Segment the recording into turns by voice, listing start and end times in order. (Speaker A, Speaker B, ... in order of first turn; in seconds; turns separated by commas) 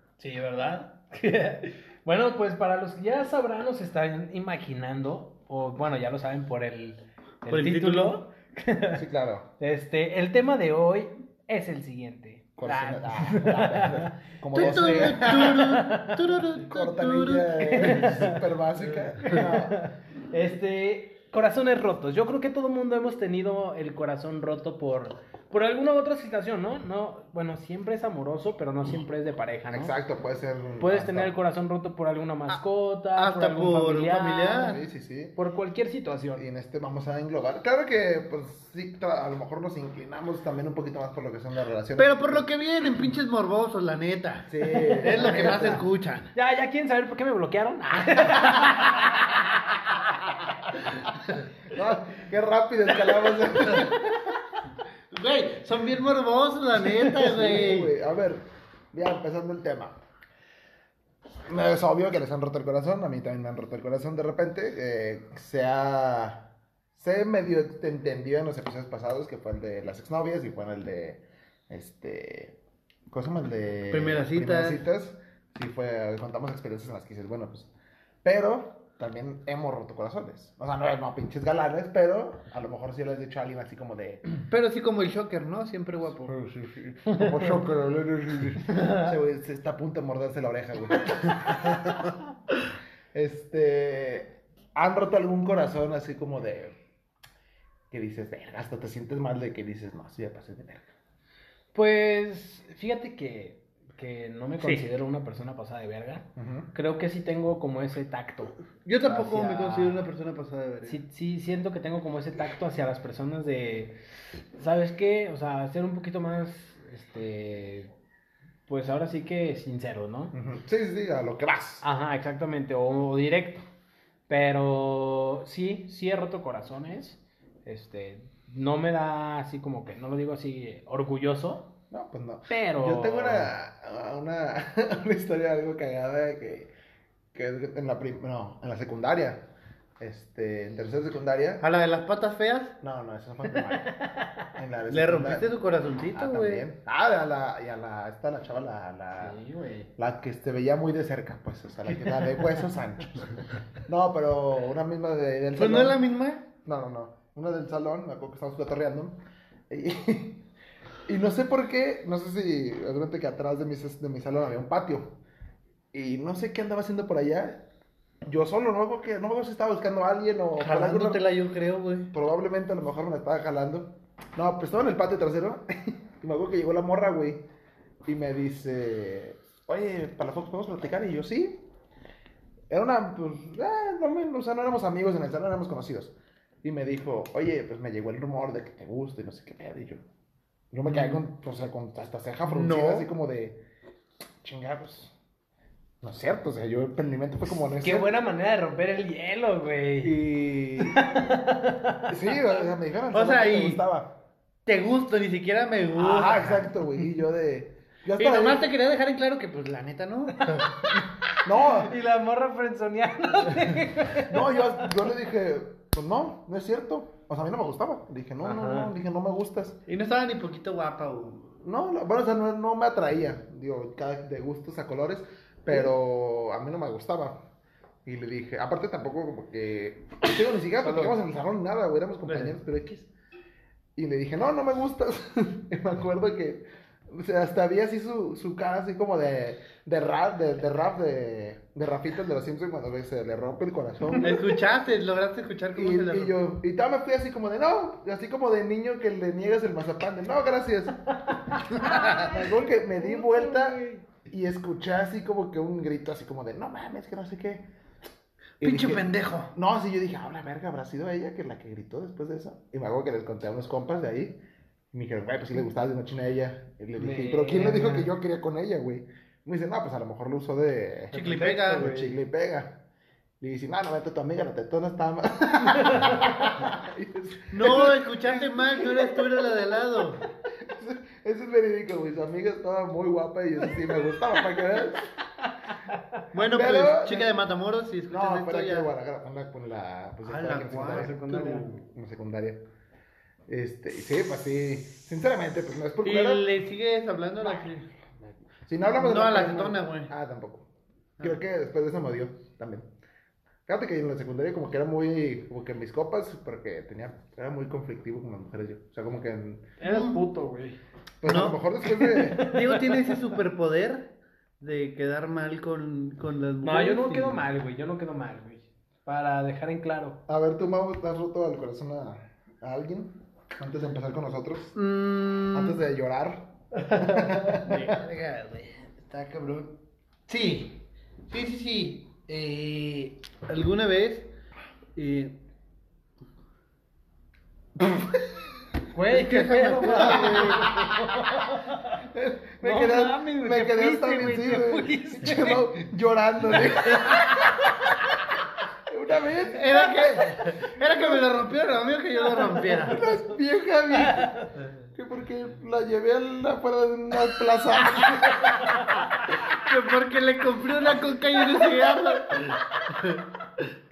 Speaker A: 0.2-9.0, Speaker B: 7.5-8.2, Speaker C: 8.9-9.5, Speaker A: 9.6-16.2, Speaker C: 12.6-15.7, Speaker B: 14.5-18.1, Speaker C: 16.5-19.8, Speaker A: 17.6-18.4, Speaker A: 19.2-29.9, Speaker C: 29.7-31.3, Speaker A: 30.8-34.7, Speaker B: 33.1-34.8, Speaker C: 34.6-35.3, Speaker A: 35.4-36.4, Speaker C: 36.4-42.5, Speaker B: 42.0-46.3, Speaker C: 44.5-45.9, Speaker A: 44.7-45.8, Speaker A: 46.3-50.0, Speaker C: 51.7-54.0, Speaker B: 55.1-57.9, Speaker C: 57.1-60.0, Speaker C: 61.5-72.5, Speaker C: 73.1-77.7, Speaker B: 73.9-74.8, Speaker C: 78.2-84.2, Speaker B: 84.5-86.4, Speaker C: 86.2-92.1, Speaker B: 88.7-89.1, Speaker C: 93.1-96.8, Speaker C: 97.9-100.8, Speaker A: 101.7-110.0, Speaker C: 106.3-106.7, Speaker B: 108.8-111.0, Speaker A: 110.8-114.0, Speaker A: 114.5-117.9, Speaker A: 118.7-120.3, Speaker C: 120.3-121.8, Speaker A: 121.8-123.6, Speaker A: 124.3-131.7, Speaker C: 131.9-136.7, Speaker A: 132.5-133.5, Speaker C: 137.3-141.6, Speaker B: 141.6-142.8, Speaker C: 142.8-143.9, Speaker A: 143.9-144.3, Speaker C: 144.5-145.5, Speaker B: 144.9-146.7, Speaker C: 146.1-149.4, Speaker A: 149.2-149.9, Speaker C: 150.0-156.0, Speaker B: 155.6-156.4, Speaker C: 156.6-160.4, Speaker C: 161.1-165.2, Speaker C: 165.9-167.7, Speaker C: 168.2-171.2, Speaker B: 170.6-172.1, Speaker C: 172.1-177.4, Speaker C: 178.0-181.6, Speaker C: 182.7-190.0, Speaker C: 190.7-193.6, Speaker B: 192.4-193.1, Speaker C: 194.4-195.1, Speaker C: 196.0-198.1, Speaker A: 197.8-200.1, Speaker C: 200.1-200.9, Speaker B: 200.2-200.8, Speaker A: 200.8-202.1, Speaker C: 202.1-204.2, Speaker B: 203.1-203.8, Speaker B: 204.7-206.8, Speaker C: 205.9-208.6, Speaker B: 208.2-210.9, Speaker A: 210.6-210.9, Speaker C: 211.4-211.9, Speaker A: 211.6-214.9, Speaker C: 214.1-219.8, Speaker A: 218.4-218.9, Speaker B: 219.9-221.5, Speaker C: 221.6-227.4, Speaker C: 228.0-233.1, Speaker B: 232.3-232.6, Speaker C: 233.9-244.6, Speaker B: 244.2-246.4, Speaker C: 245.7-251.2, Speaker A: 251.3-254.0, Speaker B: 251.8-252.3, Speaker C: 251.8-257.7, Speaker B: 258.6-259.5, Speaker C: 258.6-264.4, Speaker C: 264.9-272.8, Speaker A: 267.0-268.1, Speaker B: 271.1-272.0, Speaker A: 271.1-272.1, Speaker C: 273.4-279.2, Speaker A: 275.8-276.2, Speaker B: 277.5-280.2, Speaker C: 280.6-285.1, Speaker A: 285.9-286.2, Speaker B: 286.3-288.9, Speaker C: 286.4-287.3, Speaker C: 288.1-291.2, Speaker B: 290.2-291.8, Speaker A: 290.8-291.8, Speaker C: 291.9-292.6, Speaker C: 293.5-296.5, Speaker B: 296.0-297.9, Speaker C: 298.2-300.7, Speaker B: 298.8-300.1, Speaker C: 301.2-302.9, Speaker C: 303.7-309.7, Speaker A: 309.8-310.8, Speaker B: 309.8-310.2, Speaker C: 311.2-312.6, Speaker B: 311.2-311.6, Speaker A: 311.9-313.2, Speaker B: 312.3-317.5, Speaker A: 316.6-320.2, Speaker C: 320.3-324.8, Speaker B: 324.8-325.8, Speaker C: 325.5-328.0, Speaker B: 327.3-334.3, Speaker A: 327.7-327.9, Speaker B: 334.9-335.4, Speaker A: 338.9-342.0, Speaker B: 339.1-340.7, Speaker C: 339.9-340.8, Speaker C: 342.0-347.7, Speaker A: 342.6-345.7, Speaker A: 346.8-347.7, Speaker C: 348.9-351.2, Speaker B: 349.5-353.0, Speaker C: 352.8-354.4, Speaker A: 353.9-354.5, Speaker C: 354.9-358.7, Speaker B: 359.5-363.6